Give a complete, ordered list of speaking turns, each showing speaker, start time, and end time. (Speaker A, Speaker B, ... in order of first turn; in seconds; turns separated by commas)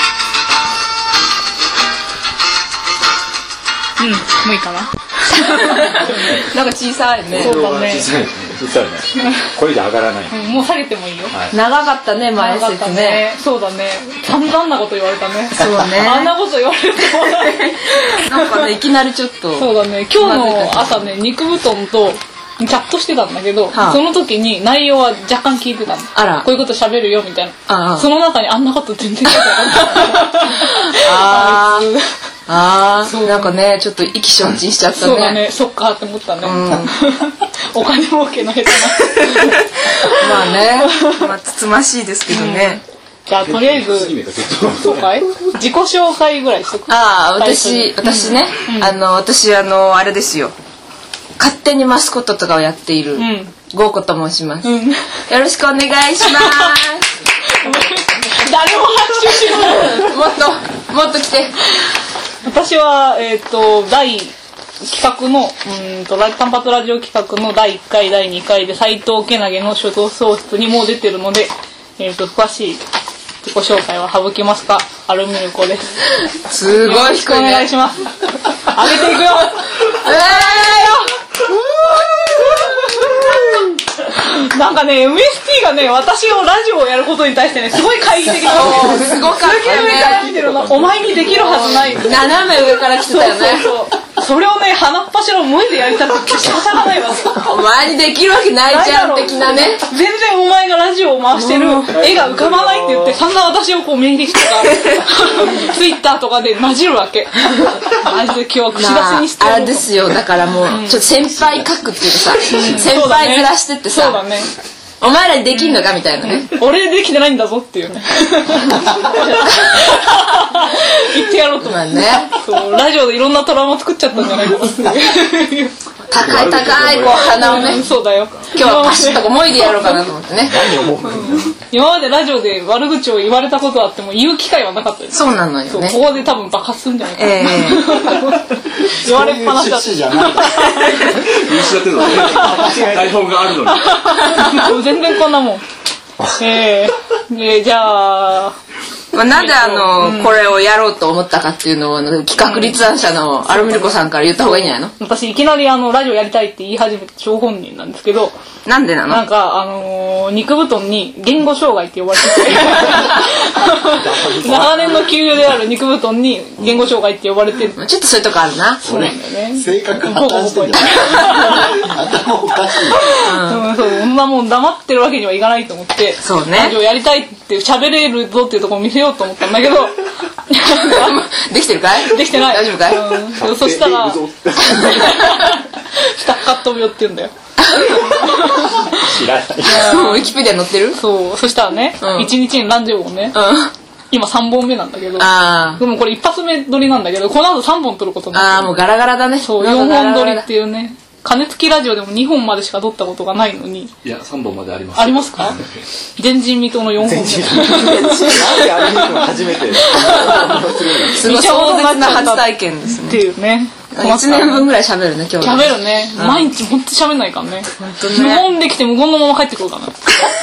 Speaker A: 4.0-6.4, Speaker B: 5.4-7.5, Speaker C: 7.3-10.4, Speaker A: 7.4-8.1, Speaker A: 10.3-11.3, Speaker B: 11.5-13.2, Speaker A: 12.4-18.7, Speaker B: 15.6-16.3, Speaker B: 17.0-21.0, Speaker A: 19.6-32.1, Speaker B: 23.7-24.0, Speaker B: 26.1-26.5, Speaker B: 27.7-28.1, Speaker B: 29.6-31.9, Speaker B: 32.5-35.4, Speaker A: 33.1-33.5, Speaker A: 35.0-41.3, Speaker B: 36.4-36.9, Speaker B: 40.0-42.8, Speaker A: 42.3-44.2, Speaker C: 43.4-45.2, Speaker A: 44.8-48.9, Speaker B: 46.9-50.5, Speaker B: 51.4-54.7, Speaker A: 53.2-53.5, Speaker A: 54.6-55.0, Speaker B: 55.3-57.1, Speaker A: 56.2-56.8, Speaker A: 57.5-60.1, Speaker B: 59.6-61.5, Speaker A: 62.5-72.8, Speaker A: 73.4-76.1, Speaker B: 76.3-77.7, Speaker A: 76.7-81.0, Speaker B: 79.8-81.0, Speaker A: 81.9-97.5, Speaker B: 88.5-90.3, Speaker C: 88.6-92.0, Speaker B: 92.0-93.7, Speaker B: 97.4-99.8, Speaker A: 98.7-109.9, Speaker B: 101.3-102.2, Speaker B: 104.7-105.0, Speaker B: 108.8-114.2, Speaker A: 110.7-111.0, Speaker A: 112.5-114.5, Speaker B: 115.0-116.5, Speaker A: 115.5-115.8, Speaker A: 116.4-125.7, Speaker B: 119.2-119.8, Speaker B: 121.6-122.3, Speaker B: 126.1-127.8, Speaker C: 126.2-127.6, Speaker A: 127.3-129.8, Speaker B: 128.5-130.6, Speaker C: 130.4-131.6, Speaker A: 131.1-141.1, Speaker B: 135.1-136.0, Speaker B: 137.2-138.1, Speaker D: 138.8-140.8, Speaker C: 141.1-144.2, Speaker A: 142.0-142.7, Speaker D: 142.6-143.0, Speaker A: 143.7-145.6, Speaker A: 146.3-148.6, Speaker B: 149.1-154.9, Speaker A: 149.2-150.4, Speaker A: 152.4-152.8, Speaker A: 153.5-158.3, Speaker B: 158.7-159.2, Speaker A: 159.1-167.8, Speaker C: 164.0-165.1, Speaker D: 164.1-164.5, Speaker B: 167.8-168.8, Speaker A: 168.8-171.9, Speaker D: 168.8-173.0, Speaker A: 173.1-181.2, Speaker B: 173.2-173.7, Speaker B: 176.2-176.8, Speaker B: 180.7-183.2, Speaker A: 182.1-190.3, Speaker C: 183.3-185.3, Speaker B: 187.6-188.3, Speaker C: 188.9-190.0, Speaker B: 189.7-191.0, Speaker A: 191.0-193.4, Speaker B: 192.0-192.3, Speaker B: 193.3-193.7, Speaker A: 194.1-198.7, Speaker B: 195.2-195.8, Speaker B: 198.3-200.5, Speaker A: 199.4-203.9, Speaker C: 204.0-205.8, Speaker A: 204.9-205.6, Speaker A: 206.2-208.7, Speaker C: 207.0-211.3, Speaker B: 208.1-208.8, Speaker A: 209.8-214.7, Speaker B: 211.1-213.2, Speaker B: 213.9-216.5, Speaker A: 215.4-220.0, Speaker B: 217.8-218.5